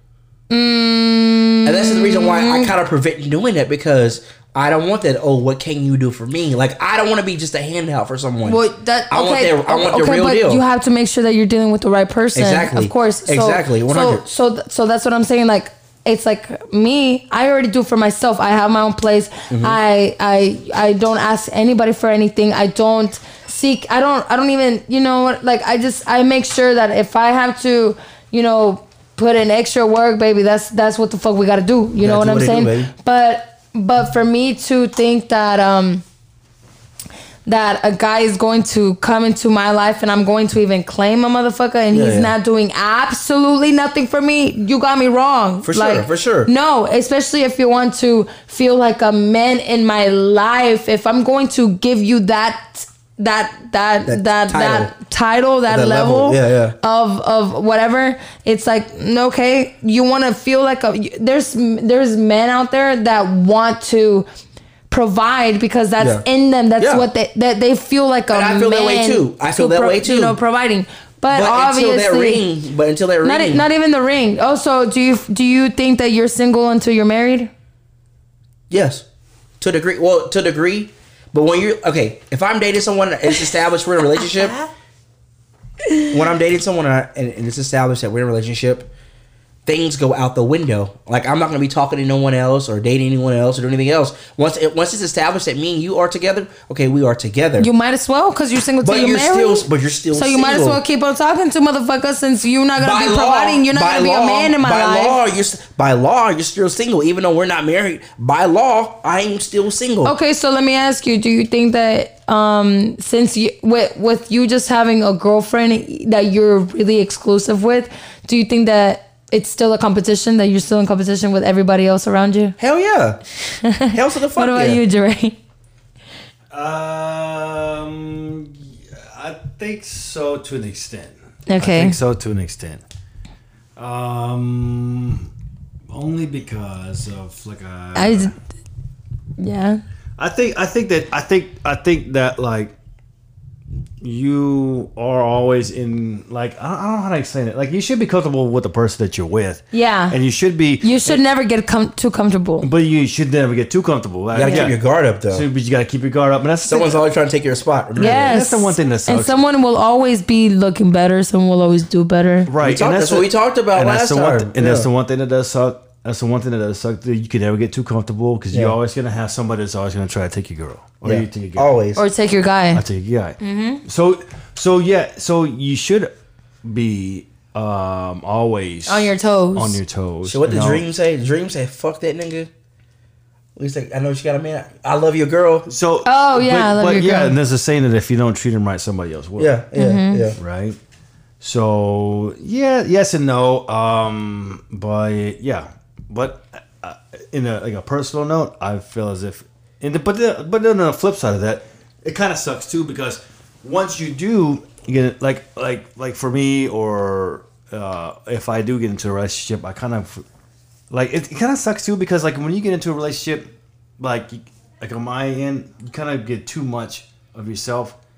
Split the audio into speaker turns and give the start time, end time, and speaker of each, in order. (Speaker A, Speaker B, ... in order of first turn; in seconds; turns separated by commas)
Speaker A: 0.5-2.7, Speaker B: 1.6-10.6, Speaker A: 8.4-36.0, Speaker B: 12.3-14.2, Speaker B: 19.5-19.8, Speaker B: 32.0-32.9, Speaker A: 37.5-64.3, Speaker B: 41.9-42.3, Speaker B: 45.6-46.5, Speaker B: 54.1-54.9, Speaker B: 55.7-56.8, Speaker A: 64.9-72.5, Speaker B: 66.0-66.2, Speaker B: 66.8-67.1, Speaker B: 68.3-70.4, Speaker B: 71.3-73.7, Speaker A: 73.2-77.5, Speaker B: 78.7-79.0, Speaker B: 79.6-84.6, Speaker B: 86.1-88.9, Speaker B: 89.7-97.7, Speaker A: 97.6-105.2, Speaker B: 98.8-100.8, Speaker B: 102.8-110.2, Speaker A: 110.0-122.6, Speaker B: 122.6-123.2, Speaker A: 123.6-125.4, Speaker B: 123.9-124.8, Speaker C: 126.5-132.8, Speaker A: 131.5-132.0, Speaker C: 133.8-135.3, Speaker C: 135.9-138.3, Speaker A: 138.0-138.3, Speaker A: 139.4-139.8, Speaker C: 140.2-142.7, Speaker C: 144.0-151.2, Speaker A: 149.7-150.2, Speaker A: 150.8-152.7, Speaker C: 152.6-154.8, Speaker B: 154.3-155.5, Speaker A: 154.4-154.7, Speaker C: 155.3-157.0, Speaker B: 156.7-158.3, Speaker C: 158.0-159.4, Speaker A: 158.0-162.5, Speaker C: 162.5-171.8, Speaker B: 162.6-164.9, Speaker B: 168.5-168.8, Speaker B: 171.0-172.1, Speaker A: 172.0-172.8, Speaker C: 172.7-180.8, Speaker A: 173.4-173.8, Speaker A: 178.9-179.8, Speaker B: 180.2-182.5, Speaker B: 183.6-185.7, Speaker C: 185.7-189.6, Speaker A: 186.1-187.3, Speaker B: 189.4-190.4, Speaker A: 189.8-190.3, Speaker C: 190.4-190.8, Speaker C: 191.4-210.2, Speaker C: 210.9-218.0